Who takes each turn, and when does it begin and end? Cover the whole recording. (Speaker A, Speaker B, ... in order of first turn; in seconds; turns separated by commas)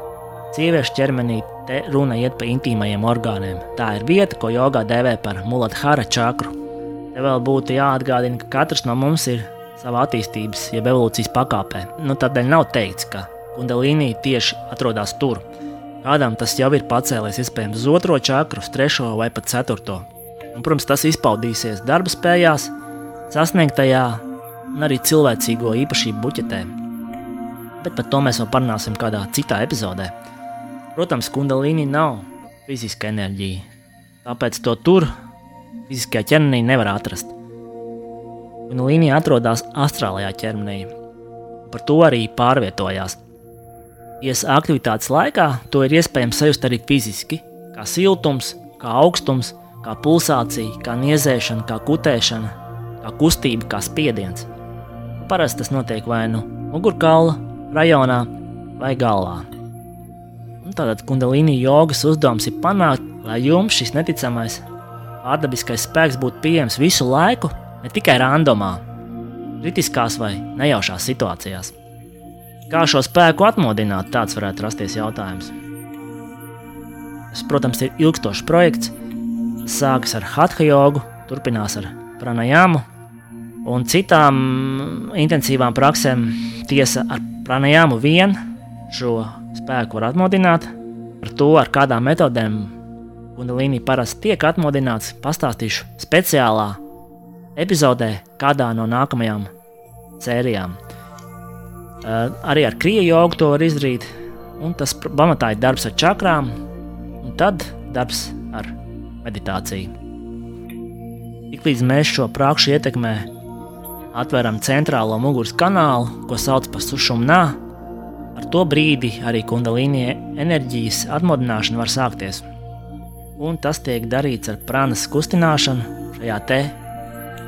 Speaker A: 0.5-6.5, Speaker A: 7.1-15.4, Speaker A: 16.0-22.7, Speaker A: 23.3-26.7, Speaker A: 27.8-30.1, Speaker A: 30.9-33.6, Speaker A: 34.2-35.1, Speaker A: 35.9-37.3, Speaker A: 38.7-40.9, Speaker A: 41.7-43.2, Speaker A: 44.2-54.5, Speaker A: 55.2-59.5, Speaker A: 60.6-64.7, Speaker A: 65.2-68.8, Speaker A: 69.6-71.7, Speaker A: 72.7-75.5, Speaker A: 77.3-78.9, Speaker A: 79.7-82.8, Speaker A: 83.6-88.4, Speaker A: 88.9-92.8, Speaker A: 93.3-96.8, Speaker A: 97.6-99.5, Speaker A: 100.2-100.8, Speaker A: 102.0-106.5, Speaker A: 107.2-109.9, Speaker A: 111.5-113.3, Speaker A: 114.1-117.6, Speaker A: 118.3-122.5, Speaker A: 123.4-126.8